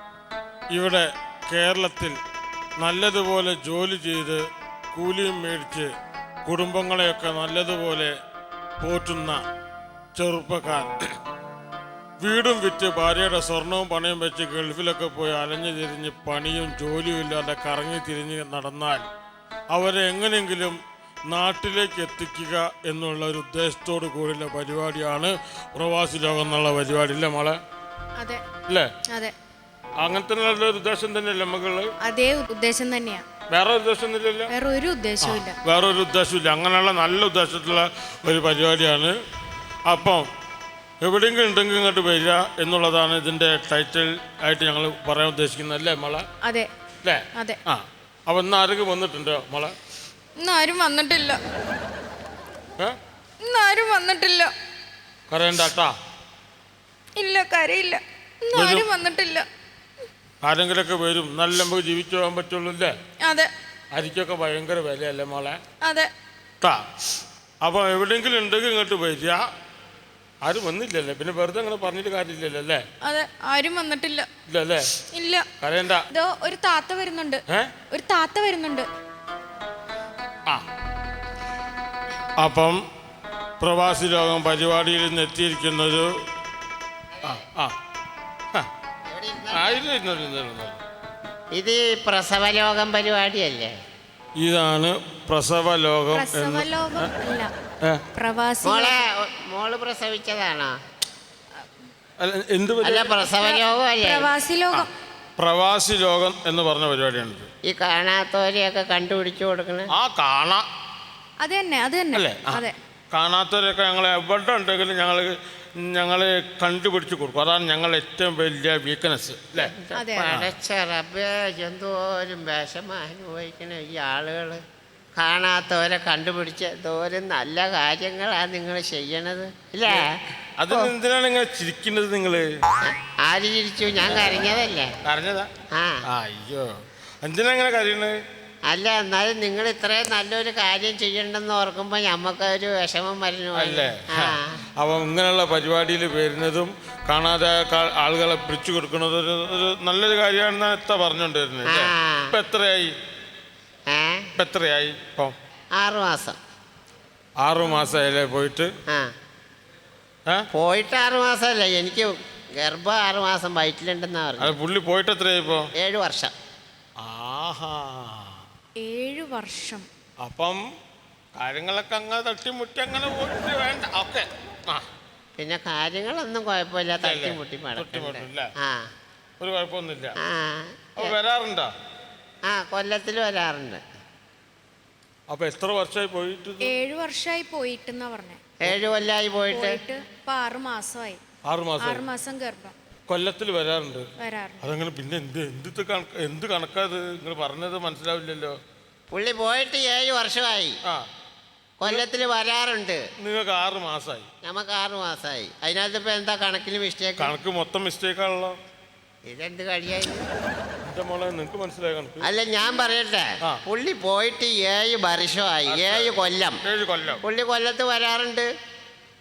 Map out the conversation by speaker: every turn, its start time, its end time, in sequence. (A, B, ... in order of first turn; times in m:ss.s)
0:00.7-0:02.2 A
0:02.8-0:05.9 A
0:06.4-0:08.1 A
0:08.8-0:09.4 A
0:10.1-0:11.1 A
0:12.2-0:19.0 A
0:19.7-0:27.6 A
0:28.2-0:28.4 B
0:29.1-0:29.3 B
0:30.0-0:31.9 A
0:32.0-0:33.2 B
0:33.5-0:34.5 A
0:34.5-0:35.6 B
0:35.2-0:39.2 A
0:39.9-0:40.3 A
0:41.0-0:46.3 A
0:46.4-0:46.7 B
0:47.0-0:49.8 A
0:50.4-0:51.4 B
0:53.4-0:54.5 B
0:55.3-0:55.9 A
0:57.2-0:59.5 B
0:58.5-0:58.9 A
1:00.4-1:03.0 A
1:03.2-1:03.5 B
1:03.9-1:05.6 A
1:05.8-1:06.1 B
1:06.6-1:06.8 A
1:07.6-1:09.5 A
1:10.4-1:12.8 A
1:13.0-1:14.3 B
1:14.5-1:14.9 A
1:15.1-1:15.5 B
1:15.6-1:16.0 A
1:16.1-1:18.9 B
1:17.5-1:17.7 A
1:22.4-1:22.8 A
1:23.6-1:26.1 A
1:27.2-1:27.8 A
1:29.1-1:29.8 C
1:29.5-1:30.8 A
1:31.5-1:33.7 C
1:34.4-1:37.1 A
1:36.1-1:37.5 B
1:38.1-1:39.0 B
1:38.6-1:40.8 C
1:42.2-1:43.1 A
1:42.8-1:44.3 C
1:43.1-1:44.9 B
1:44.7-1:47.5 A
1:47.7-1:49.9 C
1:49.9-1:50.6 A
1:51.4-1:52.8 B
1:52.1-1:59.7 A
1:59.5-2:04.6 C
1:59.9-2:00.4 B
2:05.2-2:10.1 C
2:10.6-2:12.5 A
2:12.8-2:14.9 C
2:15.0-2:15.5 A
2:15.7-2:16.0 C
2:16.1-2:18.2 A
2:18.7-2:24.6 C
2:23.6-2:32.9 A
2:31.6-2:32.3 C
2:33.9-2:34.3 C
2:34.4-2:35.3 A
2:35.8-2:36.4 C
2:37.4-2:38.7 A
2:40.5-2:44.5 C
2:44.4-2:45.7 A
2:45.8-2:46.3 C
2:47.0-2:48.4 A
2:48.8-2:49.9 B
2:50.2-2:50.6 A
2:51.4-2:54.8 A
2:55.4-2:58.9 C
2:57.0-2:58.5 A
2:59.4-3:00.2 A
3:00.2-3:01.1 C
3:01.0-3:01.7 A
3:02.5-3:03.8 C
3:05.3-3:06.7 A
3:06.6-3:08.4 B
3:08.6-3:09.8 C
3:09.5-3:11.2 B
3:11.4-3:12.0 A
3:11.8-3:12.7 B
3:13.1-3:14.0 A
3:14.2-3:14.6 B
3:14.6-3:18.6 A
3:19.1-3:20.8 C
3:21.8-3:23.0 C
3:23.2-3:24.3 A
3:24.4-3:27.3 C
3:27.2-3:28.6 A
3:29.2-3:30.2 C
3:30.8-3:32.3 A
3:32.2-3:36.6 C
3:35.7-3:37.2 A
3:37.2-3:38.5 C